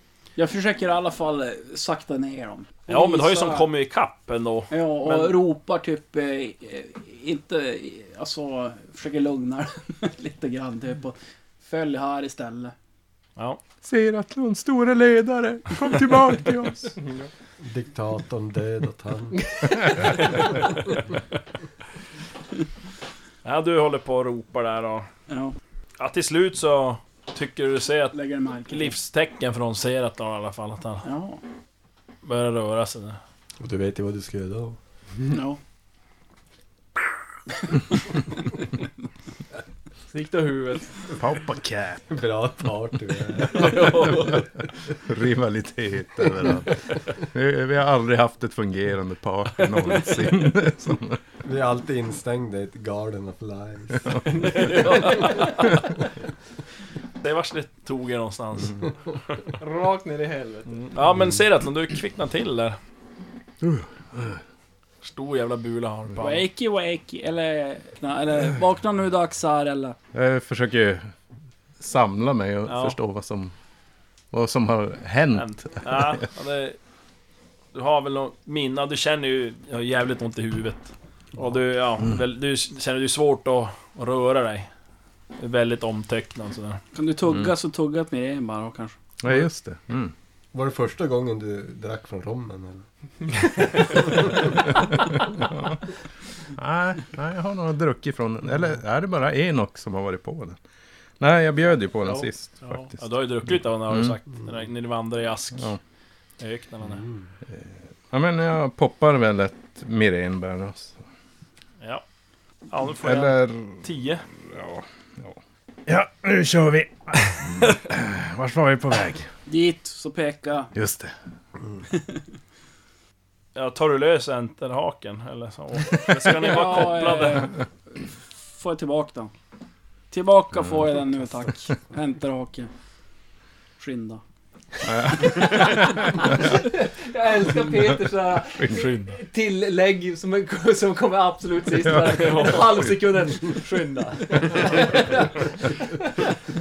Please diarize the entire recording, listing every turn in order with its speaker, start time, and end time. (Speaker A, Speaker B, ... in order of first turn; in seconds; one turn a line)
Speaker A: 0.3-3.7
Speaker B: 2.9-5.4
Speaker A: 4.7-12.7
Speaker C: 13.8-17.0
Speaker D: 17.6-20.4
Speaker B: 23.4-25.1
Speaker A: 25.3-25.6
Speaker B: 26.0-28.2
Speaker A: 28.1-28.9
Speaker B: 28.7-31.1
Speaker A: 31.0-31.4
Speaker B: 32.2-33.2
Speaker D: 33.6-34.8
Speaker A: 35.3-35.6
Speaker E: 40.1-41.0
Speaker C: 41.1-42.0
Speaker D: 42.1-44.5
Speaker C: 45.0-51.2
Speaker D: 51.4-55.4
Speaker B: 54.4-55.9
Speaker B: 57.2-58.9
Speaker E: 59.6-60.7
Speaker B: 60.7-62.8
Speaker C: 63.6-64.4
Speaker B: 65.0-66.5
Speaker A: 66.2-70.0
Speaker C: 70.1-71.1
Speaker C: 71.8-73.5
Speaker B: 72.7-73.0
Speaker C: 74.3-76.2
Speaker B: 75.3-76.8
Speaker B: 77.7-84.7
Speaker B: 85.4-86.8
Speaker A: 86.9-89.0
Speaker C: 87.3-87.5
Speaker C: 89.2-90.1
Speaker D: 90.5-92.8
Speaker D: 93.7-94.5
Speaker C: 95.0-95.8
Speaker C: 96.5-100.6
Speaker C: 101.2-103.0
Speaker B: 102.1-105.8
Speaker C: 103.9-104.2
Speaker B: 106.4-107.0
Speaker D: 107.0-107.3
Speaker C: 107.5-111.0
Speaker B: 112.7-114.2
Speaker C: 113.0-113.8
Speaker C: 114.4-119.3
Speaker A: 119.5-120.7
Speaker C: 120.7-121.1
Speaker B: 123.5-127.5
Speaker A: 126.2-127.6
Speaker A: 128.4-129.3
Speaker A: 130.1-132.7
Speaker A: 133.8-134.2
Speaker C: 134.8-136.3
Speaker A: 135.1-135.8
Speaker E: 136.4-146.3
Speaker C: 138.5-139.1
Speaker C: 141.8-142.9
Speaker B: 142.2-142.6